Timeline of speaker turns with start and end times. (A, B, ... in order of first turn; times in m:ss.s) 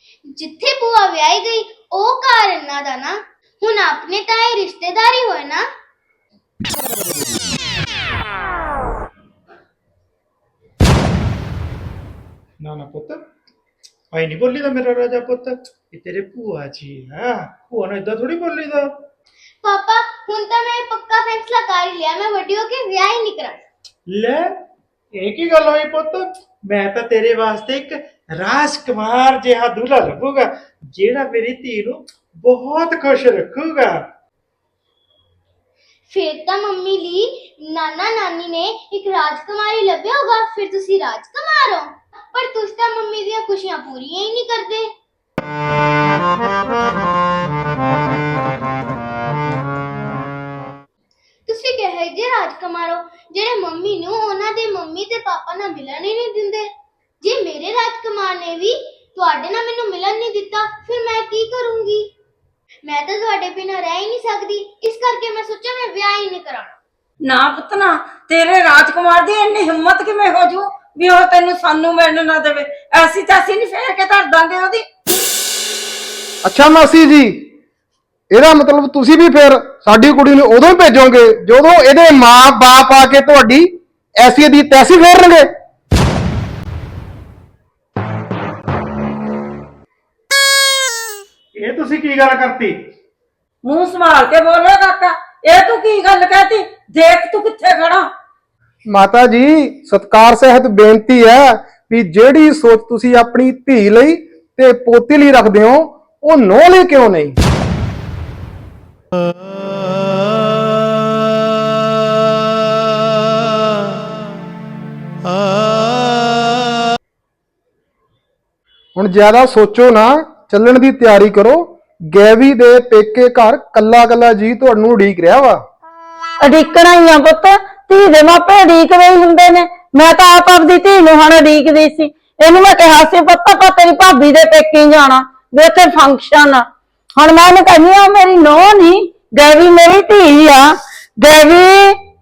0:00.3-0:05.6 A
0:12.6-0:13.2 B
0:14.1-0:18.9 B
0:19.6-0:23.7 A
0:24.1-0:24.4 B
0:25.2-0:34.0 B
0:36.1-0:44.9 A
0:51.5-0:56.7 A
0:57.2-1:02.1 A
1:02.8-1:06.8 A
1:07.3-1:14.9 C
1:16.4-1:17.4 D
1:18.3-1:25.5 D
1:31.6-1:32.8 B
1:33.6-1:38.1 C
1:38.9-1:47.4 D
1:59.0-2:05.6 D
2:06.4-2:16.6 C
2:17.2-2:20.7 C
2:21.2-2:21.9 C